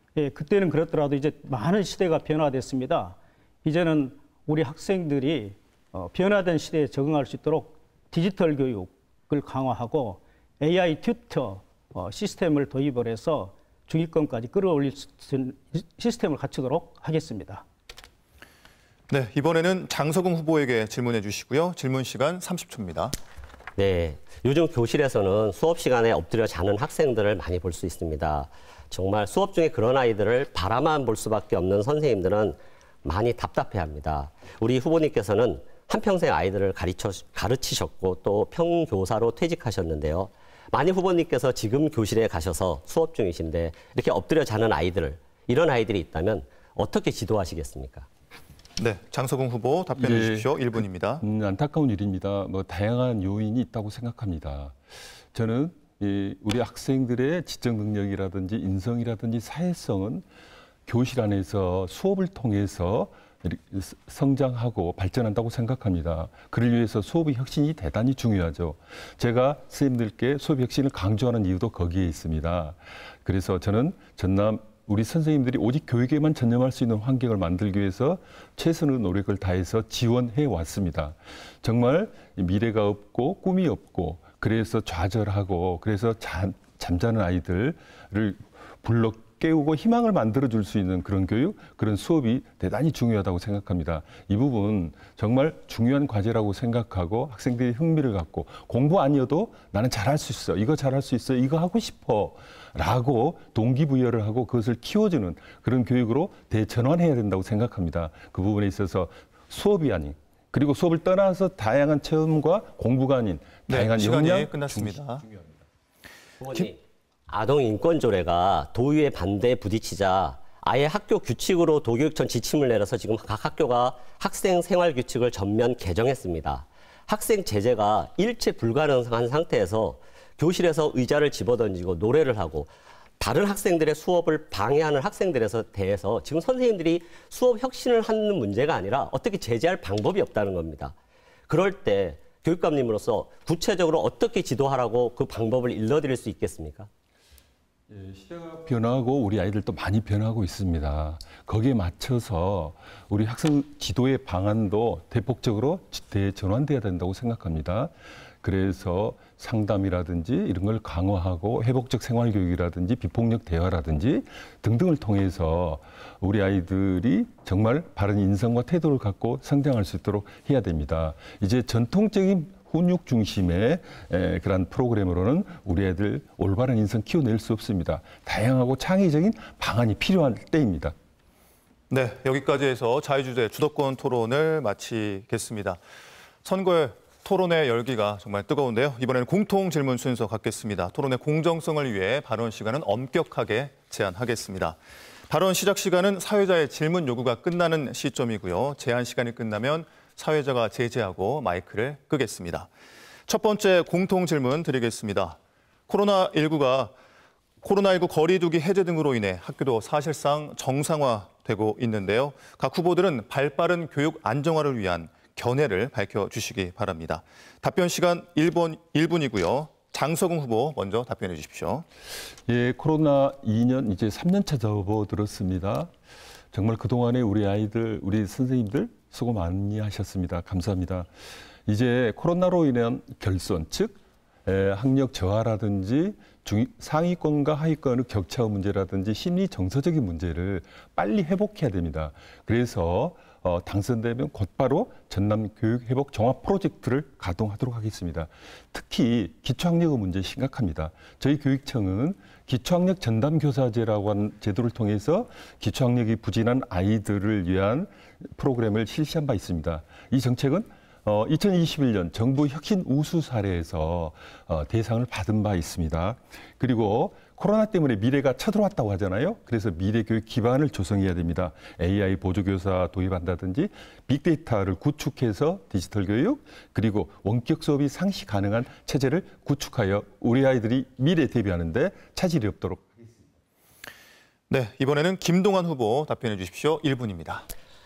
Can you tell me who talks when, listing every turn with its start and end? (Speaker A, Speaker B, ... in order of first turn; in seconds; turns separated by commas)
Speaker A: 0.1-17.6, Speaker B: 19.1-23.1, Speaker C: 23.8-48.1, Speaker B: 48.8-51.2, Speaker D: 50.0-50.5, Speaker D: 51.2-54.8, Speaker D: 55.3-60.2, Speaker D: 60.9-115.6, Speaker B: 113.7-115.2, Speaker C: 116.4-140.9, Speaker C: 141.5-146.9, Speaker D: 147.9-180.9, Speaker B: 181.9-185.8, Speaker B: 186.4-194.8, Speaker B: 195.3-202.7, Speaker B: 203.3-205.4, Speaker B: 205.9-206.9, Speaker B: 207.6-221.8, Speaker D: 222.5-225.9, Speaker D: 226.5-231.1, Speaker D: 231.7-283.1, Speaker B: 284.5-287.5